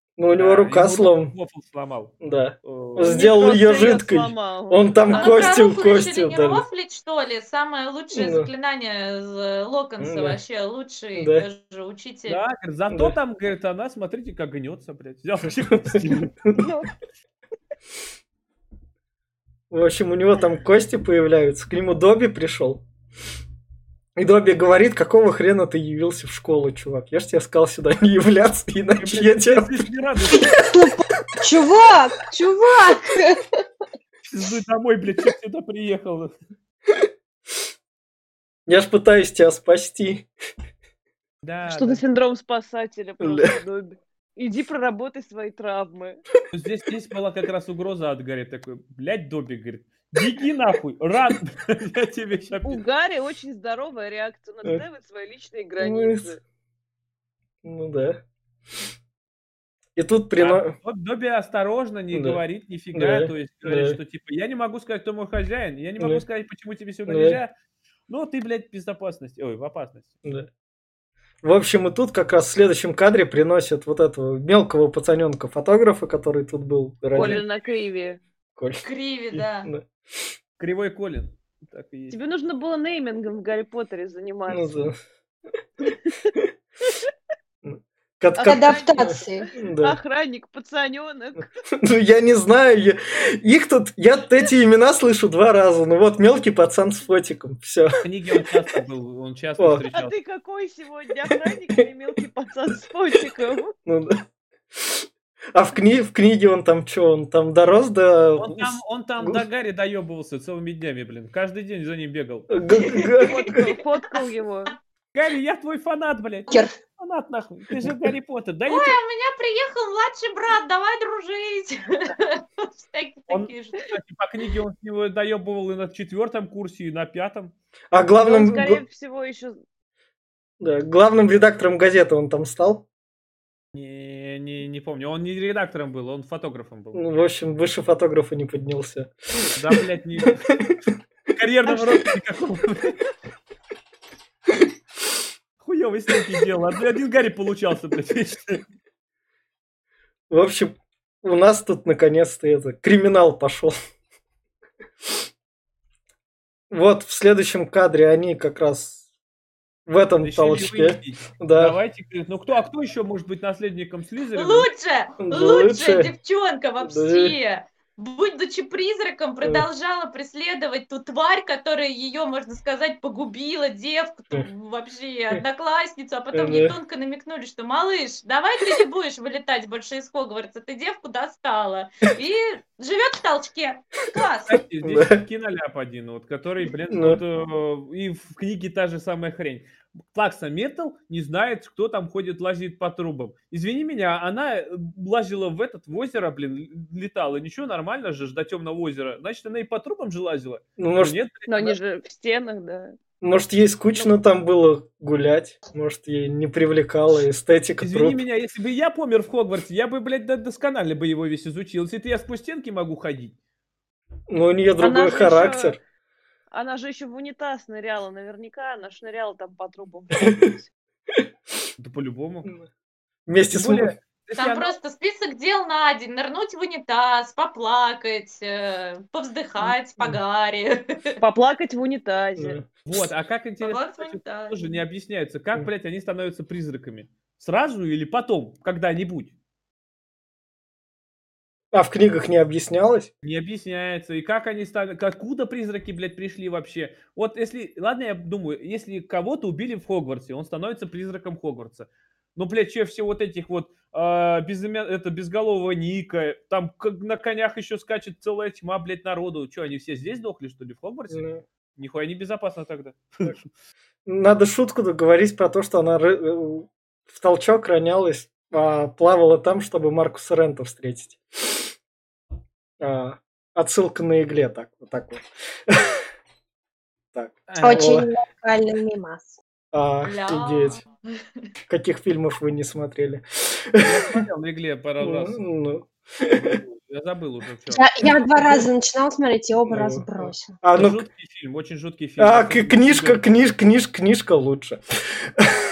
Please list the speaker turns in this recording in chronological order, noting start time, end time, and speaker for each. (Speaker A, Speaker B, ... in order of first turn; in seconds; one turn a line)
Speaker A: 0.2-1.3
Speaker B: 0.3-3.2
Speaker A: 2.2-6.7
Speaker C: 3.0-5.6
Speaker D: 5.1-12.4
Speaker A: 8.1-8.5
Speaker A: 10.0-10.4
Speaker A: 11.2-11.5
Speaker B: 12.3-16.3
Speaker A: 12.9-13.2
Speaker A: 15.8-16.7
Speaker C: 16.6-16.9
Speaker A: 19.7-22.8
Speaker A: 24.2-29.9
Speaker B: 29.0-30.6
Speaker E: 30.3-33.4
Speaker B: 34.2-36.3
Speaker A: 38.7-40.3
Speaker B: 41.4-42.0
Speaker C: 41.7-46.2
Speaker A: 43.2-43.6
Speaker B: 46.5-52.8
Speaker C: 52.6-56.4
Speaker A: 55.8-56.3
Speaker A: 57.6-58.2
Speaker A: 60.0-60.7
Speaker B: 60.4-67.5
Speaker A: 62.1-62.4
Speaker A: 62.9-64.0
Speaker A: 67.1-67.4
Speaker B: 68.1-70.1
Speaker A: 71.4-77.4
Speaker C: 77.1-78.2
Speaker B: 77.2-77.4
Speaker A: 78.6-79.8
Speaker D: 78.8-79.7
Speaker B: 80.6-82.2
Speaker C: 82.1-84.7
Speaker A: 84.5-85.0
Speaker C: 85.8-86.3
Speaker A: 87.6-90.0
Speaker C: 88.4-91.5
Speaker E: 88.4-89.5
Speaker A: 91.8-98.0
Speaker B: 98.0-100.2
Speaker C: 99.9-103.7
Speaker A: 103.9-104.2
Speaker A: 104.7-109.4
Speaker B: 108.4-112.5
Speaker A: 112.5-113.5
Speaker D: 112.8-113.8
Speaker C: 113.2-114.7
Speaker B: 115.1-119.0
Speaker D: 118.7-123.9
Speaker B: 123.3-127.5
Speaker A: 127.9-128.8
Speaker C: 128.2-129.6
Speaker A: 130.6-132.9
Speaker B: 133.7-137.0
Speaker A: 136.9-139.1
Speaker B: 139.6-140.5
Speaker A: 140.5-140.8
Speaker B: 141.3-143.0
Speaker B: 145.6-148.6
Speaker A: 150.3-153.7
Speaker A: 156.7-159.0
Speaker A: 159.9-161.8
Speaker B: 160.2-164.7
Speaker D: 164.3-184.6
Speaker A: 165.2-166.1
Speaker A: 166.8-167.4
Speaker A: 176.3-176.8
Speaker B: 184.5-201.8
Speaker A: 184.8-185.2
Speaker A: 186.9-187.2
Speaker A: 200.8-201.2
Speaker C: 201.5-203.0
Speaker A: 203.2-208.2
Speaker B: 207.8-213.3
Speaker A: 214.3-215.8
Speaker C: 214.8-215.8
Speaker C: 216.5-220.7
Speaker B: 221.8-222.5
Speaker A: 223.3-223.9
Speaker B: 223.5-224.8
Speaker D: 224.4-231.2
Speaker C: 231.2-232.6
Speaker A: 232.4-233.0
Speaker B: 232.9-239.3
Speaker D: 233.6-234.6
Speaker A: 241.7-243.1
Speaker B: 243.2-261.3
Speaker A: 261.1-261.4
Speaker B: 261.8-263.4
Speaker A: 264.1-271.7
Speaker A: 272.8-276.0
Speaker A: 277.1-278.1
Speaker B: 277.5-278.0
Speaker E: 277.6-279.4
Speaker A: 279.7-280.8
Speaker D: 280.0-281.2
Speaker A: 281.7-284.2
Speaker B: 283.8-285.4
Speaker A: 285.0-286.6
Speaker B: 286.3-288.0
Speaker E: 287.7-290.6
Speaker A: 289.7-291.0
Speaker B: 290.8-293.2
Speaker A: 292.2-295.6